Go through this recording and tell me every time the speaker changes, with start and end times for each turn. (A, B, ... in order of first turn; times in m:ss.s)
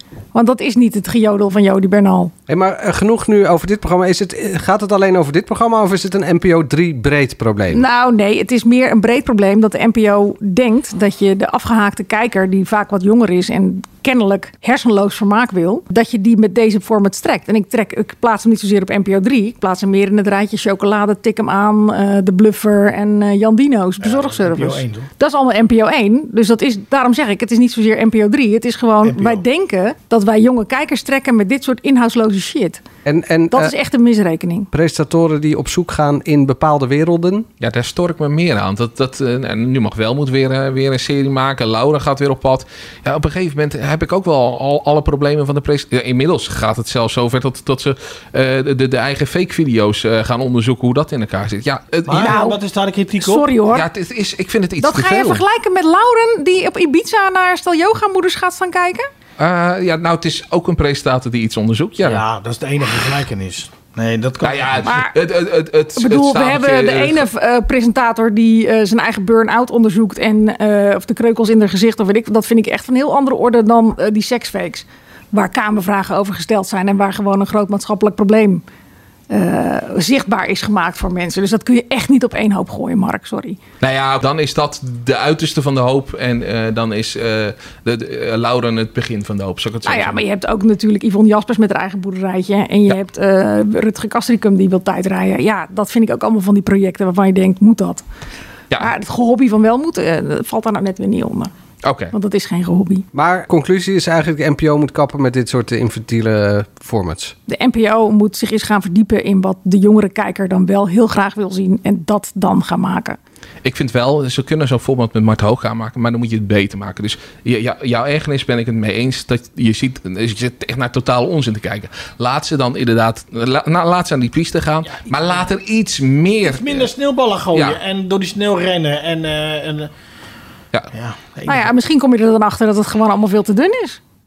0:00.3-0:02.3 A
0:02.5-0:07.8 B
0:07.7-0:32.8 A
0:24.0-0:25.1 C
0:29.0-0:29.4 C
0:33.0-0:33.7 B
0:33.5-0:34.7 A
0:34.7-0:37.5 B
0:37.6-0:52.4 D
0:52.0-0:53.5 C
0:52.2-0:52.6 A
0:53.2-0:53.8 A
0:53.7-0:55.4 D
0:54.8-0:59.1 A
0:59.4-1:02.2 D
1:02.0-1:04.9 C
1:04.4-1:07.3 D
1:04.8-1:05.1 A
1:06.0-1:18.6 A
1:19.3-1:23.6 A
1:23.8-1:30.2 D
1:29.8-1:38.0 A
1:38.8-1:41.5 A
1:41.8-1:42.1 D
1:42.1-1:43.0 A
1:43.1-1:47.3 B
1:47.5-1:53.2 A
1:53.6-2:06.9 D
2:04.9-2:05.5 C
2:06.4-2:09.9 C
2:10.9-2:11.7 C
2:11.4-2:14.0 A